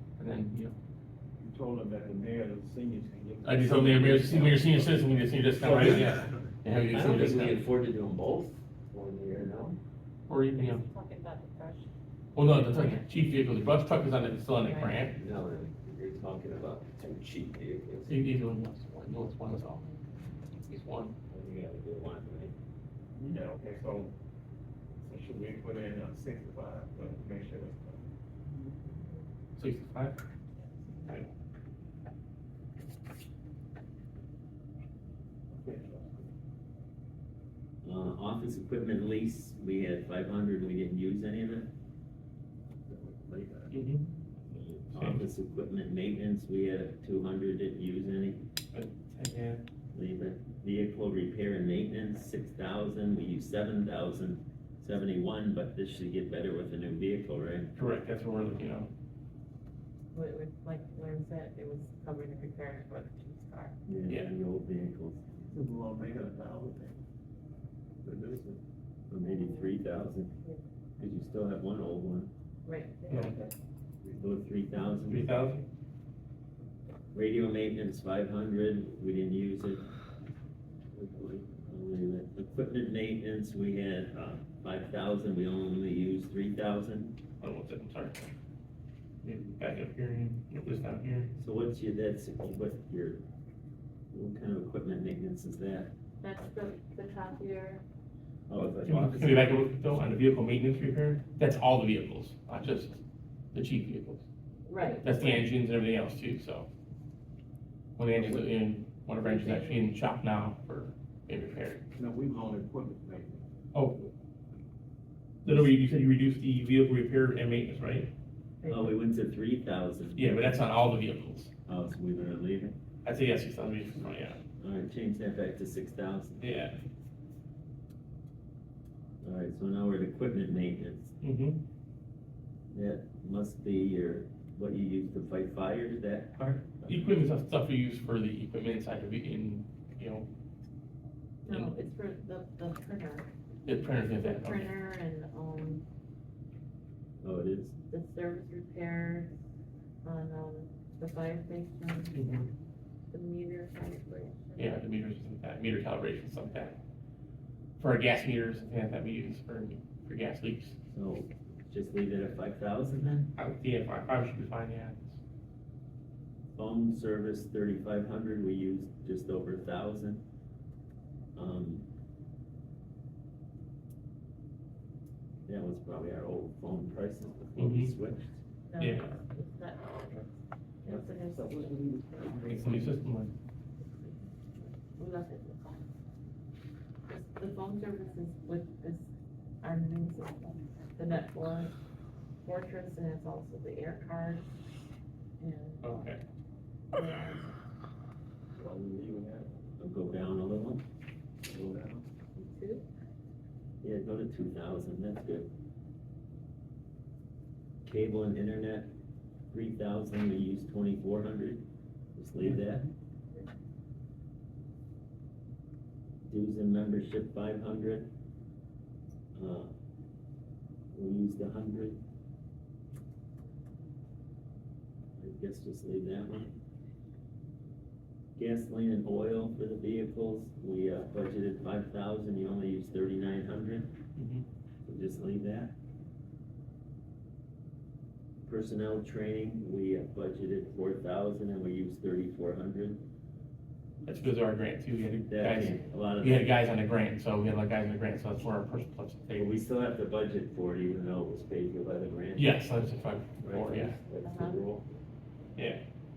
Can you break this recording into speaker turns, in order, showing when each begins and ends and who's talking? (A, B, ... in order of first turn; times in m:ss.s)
0:00.2-0:00.7 A
0:01.4-0:05.9 B
0:03.4-0:07.6 A
0:05.6-0:06.2 C
0:06.9-0:09.8 C
0:10.3-0:10.8 A
0:10.5-0:11.9 D
0:12.4-0:15.2 A
0:12.4-0:13.1 D
0:14.6-0:15.1 D
0:15.1-0:18.1 C
0:18.1-0:19.8 A
0:19.6-0:20.4 D
0:20.7-0:21.2 A
0:21.3-0:22.6 C
0:23.2-0:24.1 B
0:25.0-0:28.1 B
0:29.6-0:30.2 A
0:35.5-0:36.3 B
0:37.8-0:41.7 C
0:43.0-0:43.7 B
0:43.7-0:44.1 A
0:44.5-0:48.5 C
0:44.9-0:45.2 A
0:48.7-0:49.6 A
0:49.9-0:57.7 C
0:57.8-0:58.9 A
1:00.1-1:03.8 D
1:03.9-1:05.5 C
1:04.1-1:04.3 A
1:05.5-1:07.0 B
1:08.0-1:08.6 B
1:09.1-1:10.3 C
1:09.2-1:10.6 D
1:11.0-1:12.3 C
1:12.6-1:13.4 D
1:13.1-1:13.3 A
1:14.2-1:15.3 C
1:15.0-1:15.6 A
1:17.1-1:19.9 C
1:21.0-1:27.2 C
1:27.4-1:28.2 A
1:29.2-1:31.3 A
1:31.4-1:33.2 C
1:34.1-1:35.9 C
1:36.2-1:37.8 D
1:38.5-1:39.6 C
1:38.6-1:43.0 A
1:43.5-1:44.2 A
1:44.7-1:45.4 D
1:45.0-1:46.7 A
1:48.0-1:51.8 A
1:48.2-1:48.4 B
1:49.2-1:49.9 D
1:52.0-1:53.5 B
1:53.7-1:54.1 A
1:55.4-1:58.1 A
1:58.6-1:59.0 D
1:58.7-2:00.5 C
2:00.2-2:01.5 A
2:01.7-2:02.8 C
2:03.0-2:04.4 A
2:04.6-2:06.7 C
2:06.4-2:06.8 A
2:09.2-2:11.1 C
2:11.2-2:11.6 A
2:12.7-2:17.2 C
2:16.9-2:20.3 A
2:21.4-2:23.3 D
2:21.5-2:21.7 A
2:23.7-2:24.7 A
2:23.9-2:25.8 D
2:27.2-2:27.8 C
2:27.9-2:29.3 D
2:30.0-2:32.4 D
2:32.2-2:32.5 A
2:33.1-2:34.8 D
2:34.6-2:36.8 A
2:37.8-2:40.8 A
2:40.9-2:43.3 C
2:43.4-2:45.2 A
2:46.6-2:50.2 C
2:51.4-2:51.9 C
2:55.5-2:58.4 C
2:57.6-2:57.9 A
2:58.7-3:00.3 D
2:58.8-2:59.2 A
3:00.8-3:01.8 D
3:01.7-3:02.9 B
3:02.4-3:03.3 A
3:03.8-3:05.9 D
3:07.1-3:09.1 D
3:09.6-3:11.7 D
3:12.4-3:14.5 D
3:15.4-3:16.2 D
3:15.8-3:16.2 A
3:17.0-3:17.5 D
3:18.6-3:19.5 B
3:19.8-3:20.8 C
3:21.5-3:22.0 B
3:22.4-3:22.9 D
3:23.8-3:25.5 C
3:27.8-3:28.9 C
3:29.5-3:31.6 C
3:32.2-3:32.9 C
3:36.2-3:38.1 C
3:39.4-3:39.7 C
3:40.9-3:42.0 C
3:45.2-3:46.6 C
3:48.4-3:54.0 C
3:54.2-3:54.5 A
3:54.9-3:55.7 C
3:58.4-4:03.0 C
4:04.0-4:09.5 A
4:05.3-4:06.5 C
4:09.4-4:12.6 C
4:12.4-4:14.0 A
4:13.4-4:14.8 C
4:14.1-4:14.6 D
4:15.6-4:15.8 A